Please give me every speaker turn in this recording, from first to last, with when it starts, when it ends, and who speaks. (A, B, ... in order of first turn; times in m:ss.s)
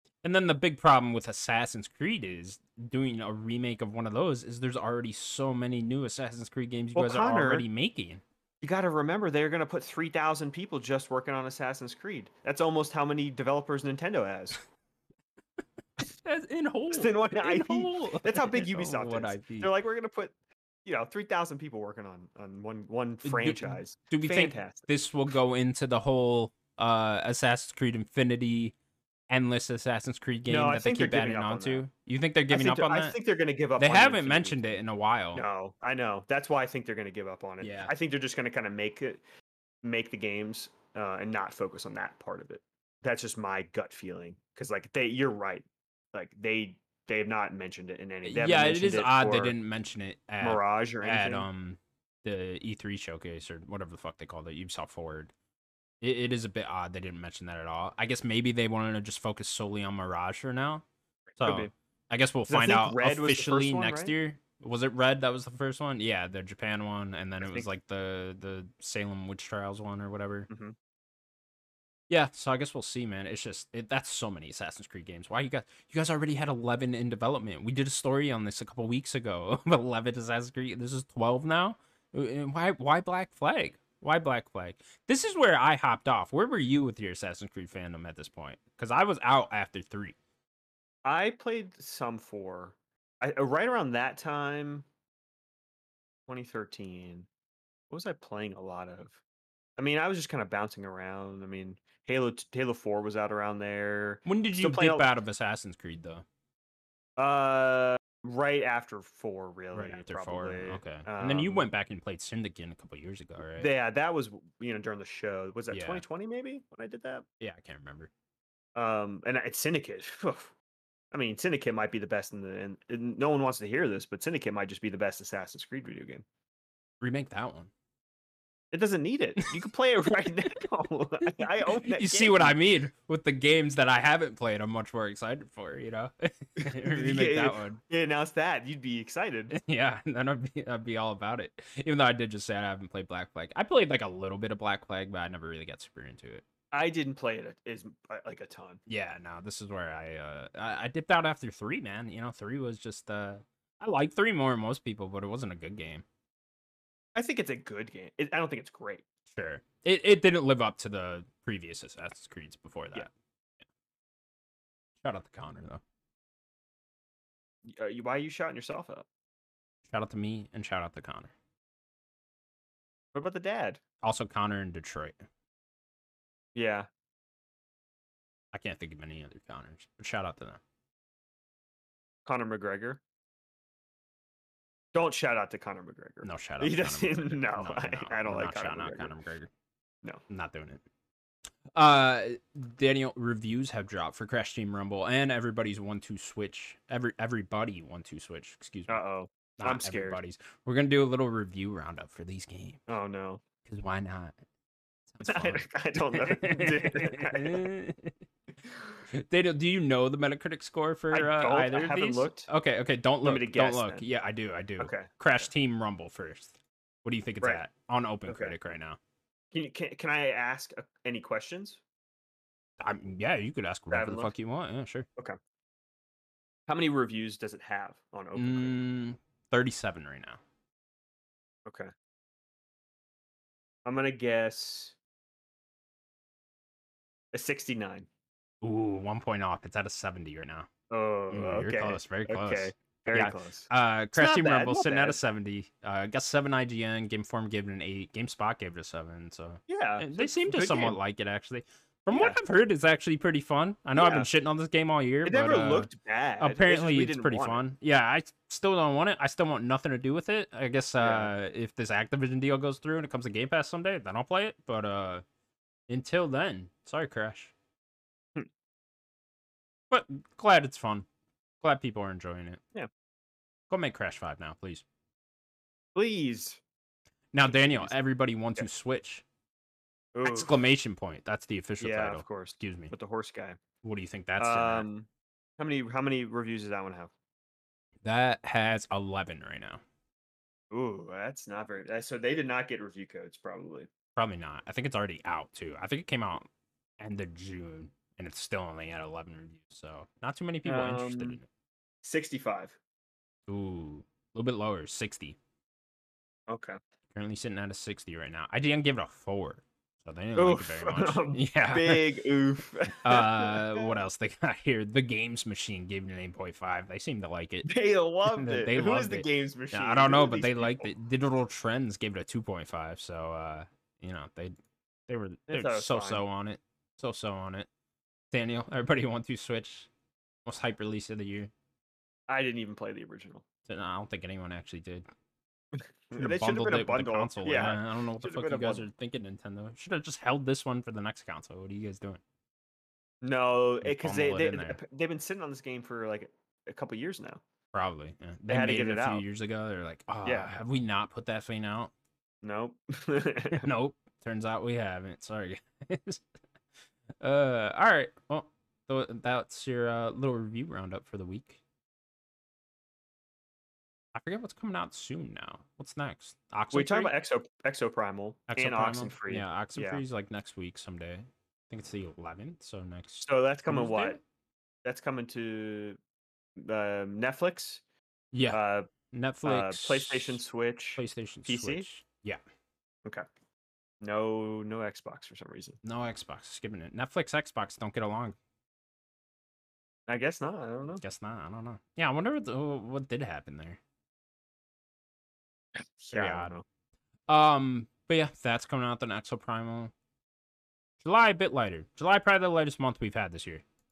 0:00.2-0:08.2 A
0:06.9-0:07.6 B
0:08.6-0:14.6 B
0:16.0-0:19.7 A
0:16.9-0:20.3 B
0:20.8-0:24.9 B
0:23.2-0:28.7 A
0:29.3-0:33.2 A
0:30.5-0:31.8 B
0:32.5-0:34.7 B
0:33.8-0:35.4 A
0:35.3-0:39.2 B
0:37.6-0:37.9 A
0:39.8-0:49.5 B
0:48.2-0:55.3 A
0:50.4-0:51.5 B
0:56.0-1:00.8 A
1:01.4-1:01.7 B
1:01.4-1:10.5 A
1:02.5-1:04.1 B
1:07.4-1:07.7 B
1:10.5-1:10.8 B
1:12.1-1:30.2 A
1:31.0-1:34.8 B
1:36.3-1:37.3 B
1:37.9-1:39.2 B
1:39.8-1:45.1 B
1:44.2-1:46.2 A
1:47.2-1:51.7 B
1:49.7-1:53.7 A
1:53.6-1:57.2 B
1:55.7-1:56.0 A
1:57.4-1:58.1 A
1:58.8-2:00.5 B
2:01.1-2:06.2 B
2:07.0-2:07.7 A
2:08.7-2:12.6 B
2:11.4-2:17.8 A
2:16.6-2:19.6 B
2:19.5-2:26.4 A
2:26.7-2:28.8 B
2:28.9-2:36.0 A
2:37.2-2:39.0 B
2:39.3-2:43.1 A
2:45.0-2:45.8 A
2:47.6-2:49.0 B
2:49.9-2:51.3 A
2:53.1-2:53.8 B
2:54.0-2:55.2 A
2:56.5-2:56.9 B
2:58.5-3:00.6 A
3:02.2-3:03.0 B
3:04.9-3:09.1 B
3:06.2-3:09.5 A
3:10.3-3:10.8 A
3:11.7-3:19.0 A
3:18.9-3:20.2 B
3:19.6-3:22.8 A
3:22.9-3:23.4 B
3:23.6-3:24.4 A
3:25.1-3:28.2 A
3:25.2-3:27.7 B
3:29.1-3:39.0 A
3:31.1-3:32.5 B
3:33.2-3:34.0 B
3:34.8-3:35.1 B
3:38.3-3:38.6 B
3:39.5-3:41.8 B
3:42.8-3:45.1 A
3:43.9-3:44.3 B
3:46.7-3:48.8 B
3:48.4-3:50.4 A
3:51.6-3:51.9 B
3:53.8-3:54.9 B
3:57.3-3:58.1 B
3:58.6-4:00.7 A
4:00.9-4:05.2 B
4:01.3-4:15.9 A
4:09.7-4:11.0 B
4:12.1-4:12.4 B
4:14.0-4:14.3 B
4:15.2-4:17.6 B
4:16.4-4:25.2 A
4:21.0-4:21.3 B
4:25.9-4:27.5 A
4:29.9-4:31.0 A
4:31.6-4:32.6 A
4:33.7-4:34.8 A
4:35.9-4:36.6 B
4:37.3-4:39.2 A
4:37.5-4:37.9 B
4:40.1-4:40.5 B
4:40.2-4:42.9 A
4:41.8-4:43.6 B
4:43.8-4:44.8 A
4:44.4-4:45.1 B
4:45.6-4:47.1 B
4:48.0-4:49.8 A
4:50.7-4:53.9 B
4:54.2-4:56.5 A
4:57.0-5:01.4 A
5:00.6-5:01.4 B
5:02.0-5:02.8 B
5:03.5-5:05.4 A
5:06.5-5:06.8 B
5:07.1-5:12.1 A
5:10.4-5:13.9 B
5:13.0-5:17.7 A
5:17.6-5:20.9 B
5:18.2-5:24.5 A
5:25.1-5:27.7 A
5:25.5-5:26.2 B
5:28.3-5:29.9 A
5:30.4-5:31.5 A
5:32.3-5:33.4 B
5:33.7-5:35.0 A
5:35.7-5:38.8 B
5:36.2-5:42.2 A
5:43.2-5:47.4 B
5:43.8-5:44.8 A
5:47.7-5:51.9 A
5:48.5-5:49.2 B
5:50.2-5:50.6 B
5:52.4-5:53.7 B
5:53.5-5:56.2 A
5:57.2-6:01.6 A
6:04.1-6:07.1 A
6:06.7-6:10.0 B
6:08.5-6:14.2 A
6:13.2-6:14.2 B
6:14.8-6:16.0 B
6:16.6-6:17.8 B
6:18.3-6:18.6 A
6:18.5-6:18.9 B
6:19.1-6:20.4 A
6:19.4-6:21.9 B
6:21.0-6:22.4 A
6:24.0-6:25.8 B
6:25.8-6:28.4 A
6:30.1-6:31.0 B
6:31.0-6:33.8 A
6:36.0-6:36.6 B
6:36.1-6:36.6 A
6:37.3-6:39.9 A
6:41.0-6:43.6 A